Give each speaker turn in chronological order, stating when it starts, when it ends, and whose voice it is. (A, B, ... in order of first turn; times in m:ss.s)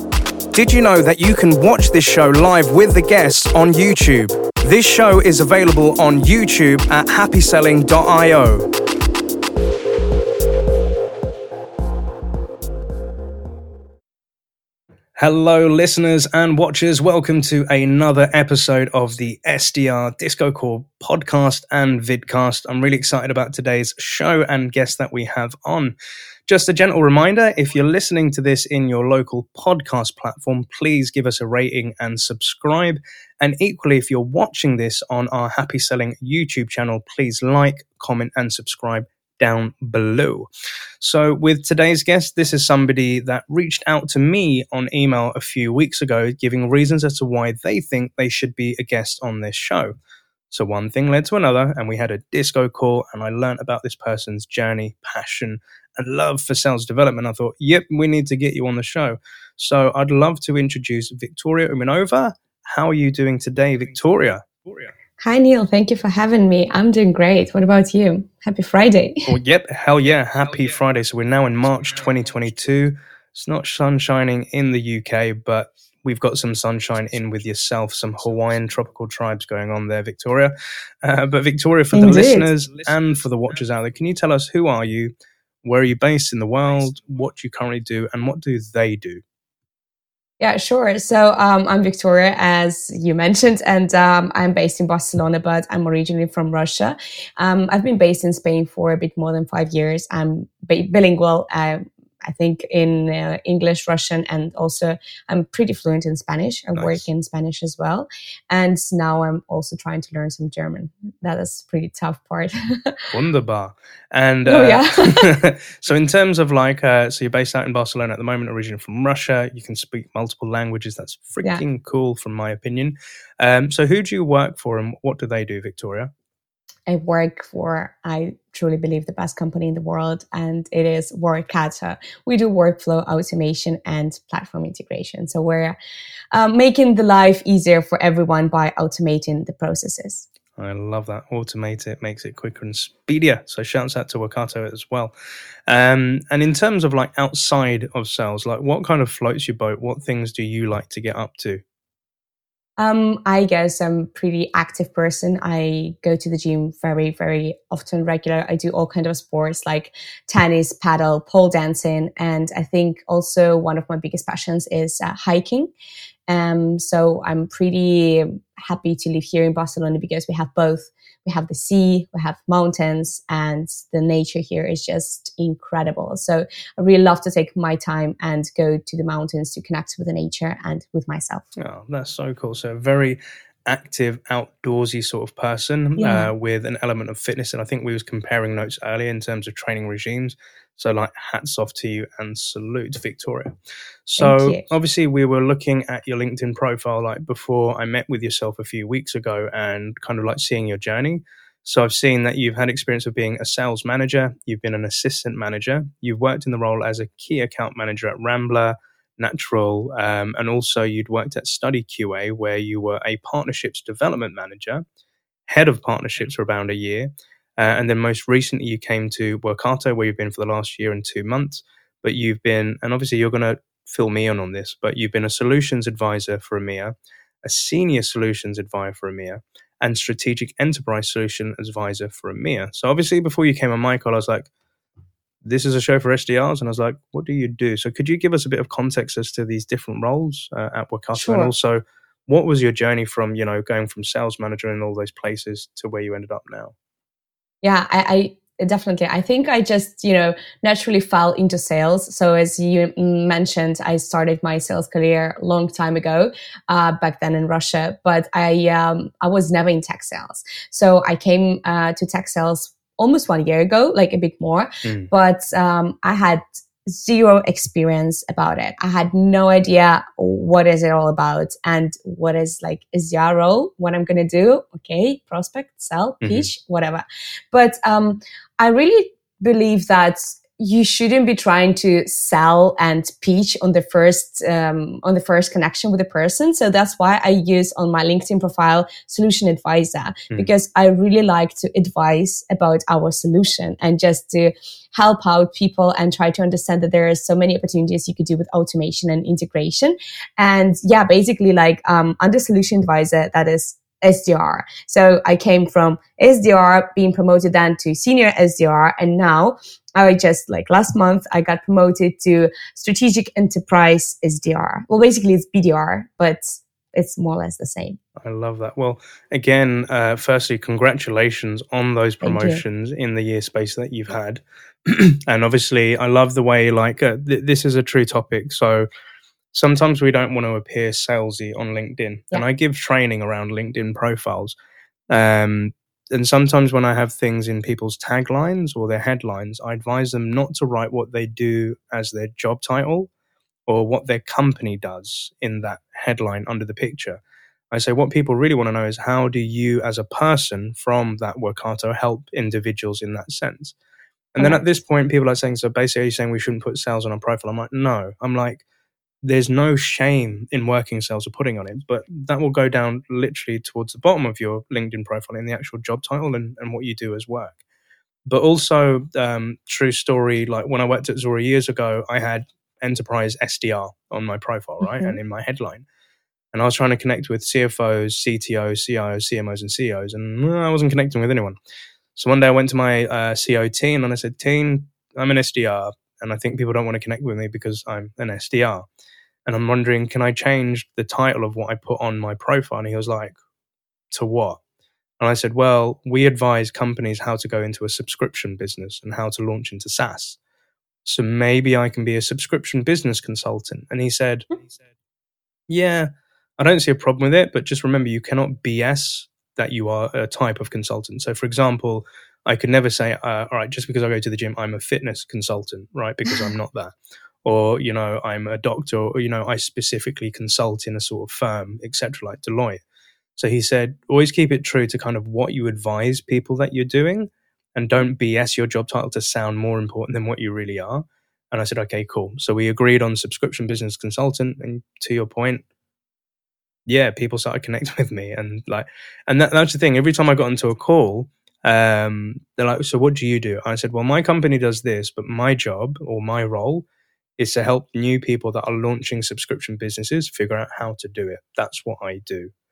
0:00.5-0:08.7 A
0:15.2-0:26.0 A
0:26.5-0:40.5 A
0:41.0-0:50.0 A
0:50.5-1:04.9 A
1:05.2-1:09.3 B
1:09.3-1:25.1 A
1:21.9-1:22.5 B
1:25.6-1:29.2 A
1:30.4-1:53.0 B
1:46.8-1:47.0 A
1:53.1-2:06.1 A
1:54.5-1:55.3 B
2:06.9-2:15.8 B
2:16.3-2:20.3 B
2:20.6-2:25.1 A
2:25.7-2:31.6 A
2:32.8-2:45.7 B
2:46.3-3:01.5 B
3:01.6-3:13.5 A
3:06.0-3:06.3 B
3:14.1-3:34.8 A
3:14.2-3:14.6 B
3:35.5-3:54.5 A
3:55.4-4:06.7 A
4:01.2-4:01.5 B
4:07.6-5:18.0 B
4:24.8-4:25.1 A
4:36.2-4:36.5 A
5:18.2-5:28.9 A
5:22.2-5:22.6 B
5:29.5-5:34.6 A
5:35.1-5:43.1 A
5:43.7-5:47.2 A
5:47.7-5:53.8 A
5:54.3-5:58.6 A
5:54.4-5:54.8 B
5:59.2-6:07.6 A
6:08.3-6:15.8 A
6:14.8-6:15.2 B
6:16.5-6:21.6 A
6:22.2-6:28.9 A
6:29.5-6:33.4 A
6:34.1-6:34.6 A
6:35.2-6:40.4 A
6:41.0-6:44.5 A
6:45.7-7:02.8 A
7:03.4-7:15.6 A
7:16.9-7:26.9 A
7:27.4-7:32.5 A